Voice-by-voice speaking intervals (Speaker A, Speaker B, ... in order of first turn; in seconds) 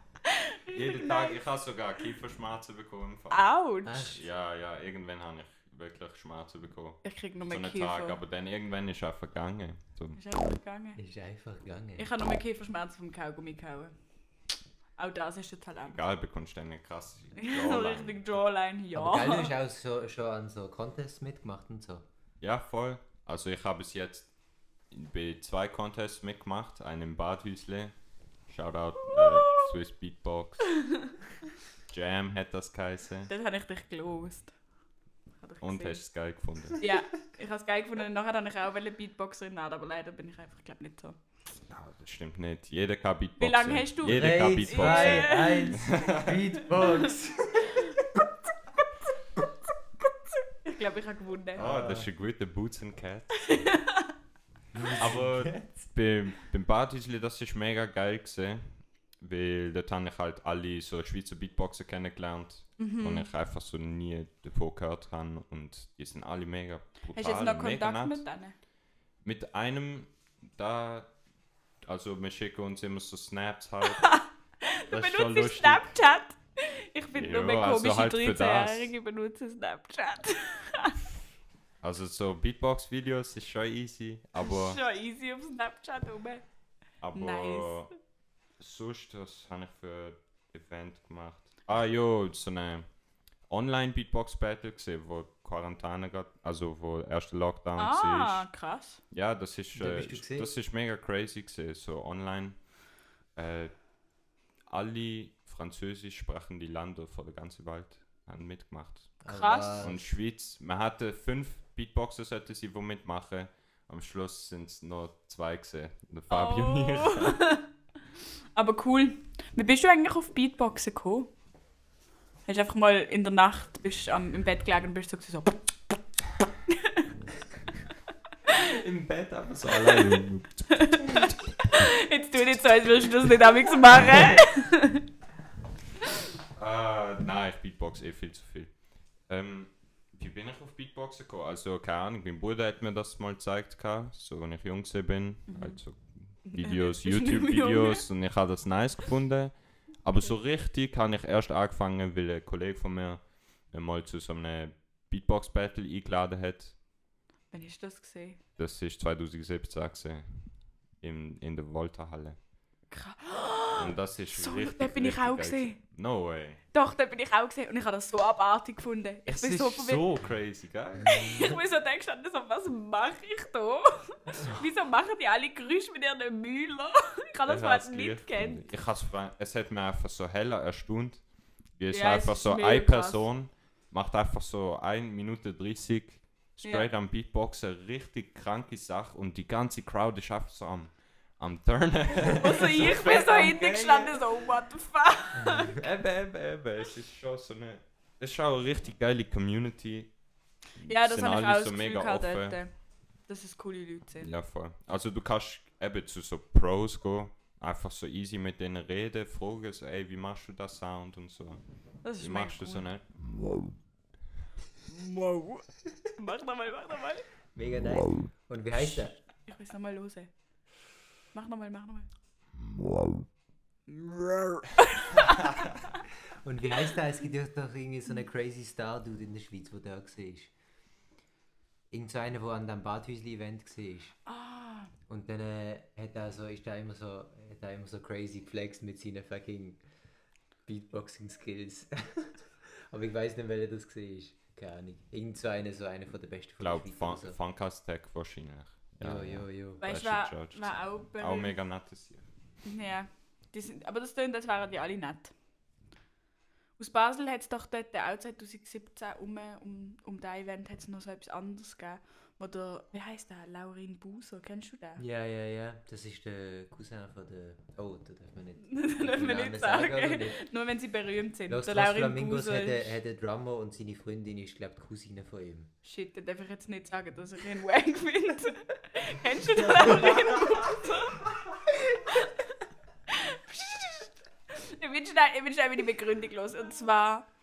Speaker A: 0.2-1.4, 3.3-4.1, 7.0-8.2, 10.2-11.0, 12.0-13.9, 15.0-16.0, 17.4-19.5, 29.1-29.7, 30.8-31.1, 33.3-34.5, 35.4-36.0, 36.8-41.2, 43.4-45.9, 46.8-47.1, 50.5-51.6, 53.4-54.1, 62.8-63.3, 67.2-68.5, 73.8-81.1, 84.4-86.4, 87.1-87.8, 97.8-99.0, 109.3-109.9, 116.3-117.7, 118.6-121.3, 122.5-125.7, 126.7-127.1, 129.7-135.1, 145.5-145.8, 146.5-148.1, 157.5-158.4, 162.9-165.8, 166.7-170.1, 171.1-178.7, 181.9-183.2, 186.6-186.9, 192.1-195.8, 200.8-202.7, 203.3-204.3, 212.0-212.9, 214.9-215.6, 216.2-217.3, 219.4-220.3, 221.3-222.1, 223.9-226.0, 234.3-234.9, 249.8-251.6, 252.7-255.3, 256.8-265.0, 268.6-272.9, 275.9-281.3, 281.9-282.5, 283.1-287.3
Speaker B: 0.7-3.5, 4.1-10.2, 15.9-18.2, 22.4-24.3, 24.9-27.9, 28.5-30.8, 31.9-33.3, 35.6-36.8, 41.7-46.4, 51.6-53.7, 54.9-68.2, 69.2-71.1, 71.8-74.2, 74.9-75.9, 77.2-78.9, 81.8-84.8, 87.0-87.9, 88.6-92.9, 93.5-98.5, 99.1-102.6, 103.4-103.7, 104.7-117.5, 128.5-131.4, 136.6-138.7, 139.3-149.5, 150.0-156.8, 158.6-160.5, 161.0-162.4, 163.8-166.6, 169.3-171.5, 177.5-181.2, 181.8-194.5, 195.7-200.1, 200.8-202.6, 204.2-211.6, 212.2-213.1, 246.6-252.3
Speaker C: 3.9-4.2, 11.0-12.1, 19.0-22.1, 44.1-48.3, 51.6-52.1, 54.7-55.9, 99.7-100.5, 109.2-110.0, 195.4-195.8, 217.6-219.2, 226.4-230.5, 231.9-234.2, 235.1-239.8, 240.7-247.4, 249.0-249.8, 265.0-270.4, 271.5-275.7, 279.5-280.5